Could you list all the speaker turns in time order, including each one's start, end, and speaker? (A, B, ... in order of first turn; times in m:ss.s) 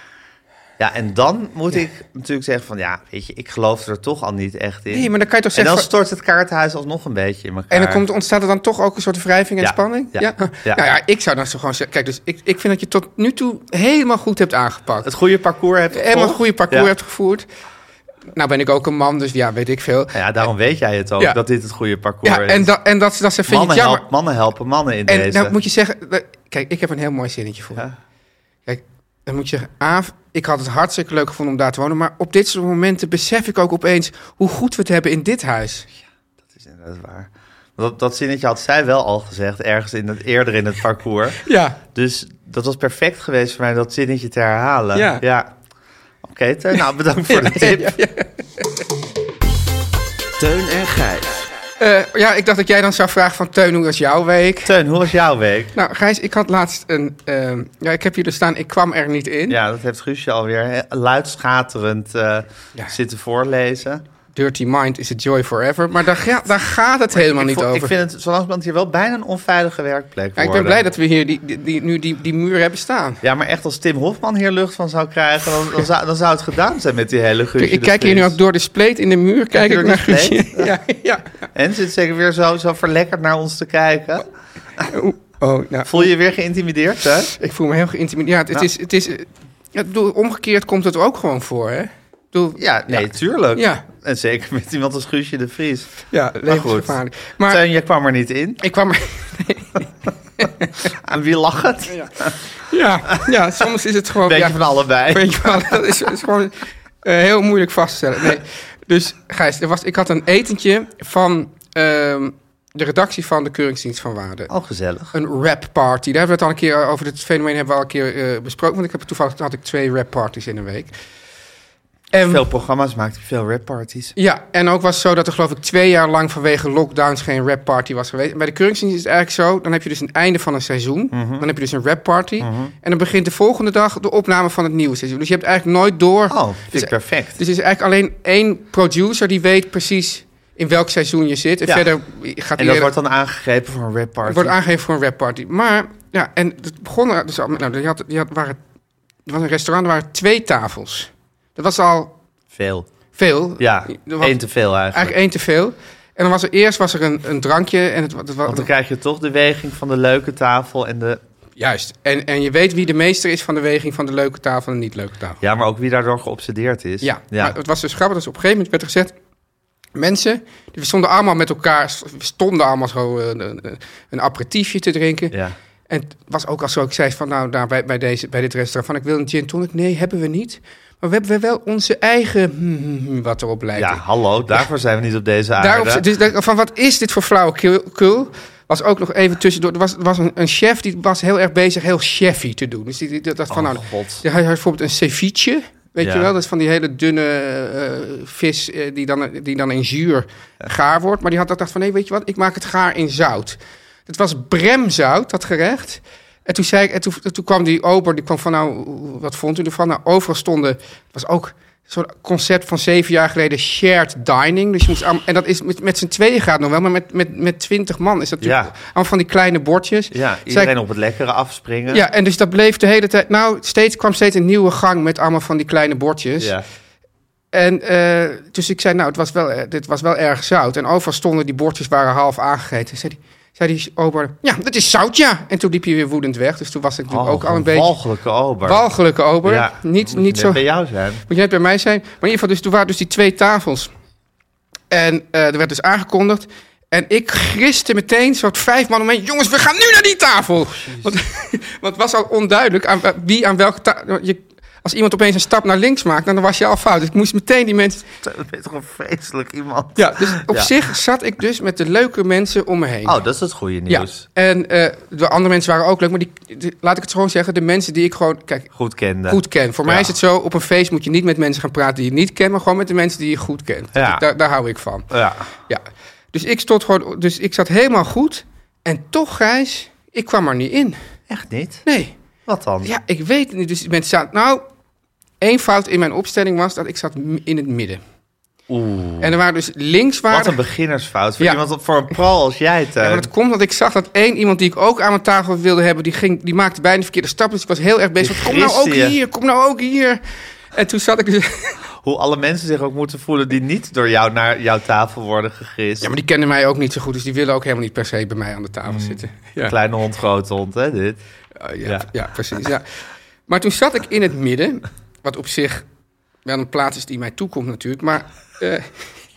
0:00.8-0:08.0 A
0:04.9-0:05.9 B
0:07.7-0:15.1 B
0:09.6-0:10.9 A
0:15.0-0:16.9 A
0:15.9-0:17.4 B
0:18.3-0:20.2 B
0:20.1-0:22.7 A
0:22.2-0:24.0 B
0:23.5-0:25.6 A
0:25.1-0:27.8 B
0:28.7-0:35.8 B
0:36.5-0:41.4 A
0:41.4-0:41.8 B
0:41.9-0:45.5 A
0:44.9-0:45.2 B
0:46.2-0:48.0 A
0:47.3-0:48.7 B
0:50.4-0:51.4 A
0:51.8-0:54.7 B
0:54.6-0:55.7 A
0:55.7-0:59.6 B
0:59.5-1:04.0 A
1:04.3-1:07.9 B
1:07.1-1:10.8 A
1:10.4-1:13.2 B
1:13.2-1:18.4 A
1:17.6-1:21.3 B
1:19.5-1:20.7 A
1:21.5-1:24.2 A
1:24.9-1:26.1 B
1:25.8-1:27.3 A
1:27.4-1:33.8 B
1:32.6-1:35.9 A
1:36.1-1:37.6 B
1:36.4-1:38.6 A
1:38.6-1:40.8 B
1:41.0-1:42.4 A
1:42.7-1:54.5 B
1:44.2-1:45.9 A
1:54.5-1:55.1 A
1:55.1-2:00.9 B
2:02.1-2:02.4 B
2:02.2-2:04.1 A
2:04.2-2:22.9 B
2:11.1-2:11.5 A
2:12.4-2:12.7 A
2:16.3-2:17.4 A
2:22.6-2:24.6 A
2:24.2-2:28.6 B
2:29.2-2:32.1 B
2:32.5-2:32.9 A
2:33.1-2:34.4 B
2:33.6-2:35.2 A
2:34.9-2:38.7 B
2:38.4-2:41.2 A
2:41.6-2:45.4 B
2:45.4-2:47.6 A
2:47.0-2:49.1 B
2:50.0-2:55.3 B
2:55.9-3:04.0 B
3:03.7-3:06.0 A
3:05.6-3:40.7 B
3:13.5-3:14.2 A
3:16.0-3:16.3 A
3:38.4-3:38.7 A
3:40.1-3:42.0 A
3:41.9-3:46.5 B
3:46.4-3:46.6 A
3:47.5-3:57.9 B
3:57.1-3:58.8 A
3:58.6-4:00.6 B
3:59.4-4:01.2 A
4:01.3-4:03.9 B
4:04.9-4:18.0 B
4:18.2-4:20.7 A
4:20.0-4:23.2 B
4:23.0-4:24.2 A
4:23.9-4:28.7 B
4:28.7-4:30.1 A
4:29.3-4:35.1 B
4:33.9-4:34.2 A
4:35.1-4:35.5 A
4:35.7-4:41.0 B
4:41.3-4:41.8 A
4:41.8-4:42.1 B
4:42.5-4:42.9 A
4:42.8-4:44.6 B
4:45.4-4:48.0 B
4:48.7-4:49.4 A
4:49.2-4:50.6 B
4:50.3-4:53.3 A
4:53.0-5:00.2 B
4:58.2-4:59.2 A
5:00.7-5:01.8 B
5:02.0-5:06.1 A
5:06.0-5:09.7 B
5:08.8-5:11.2 A
5:11.6-5:12.8 B
5:11.8-5:12.6 A
5:13.5-5:15.8 B
5:16.4-5:19.1 B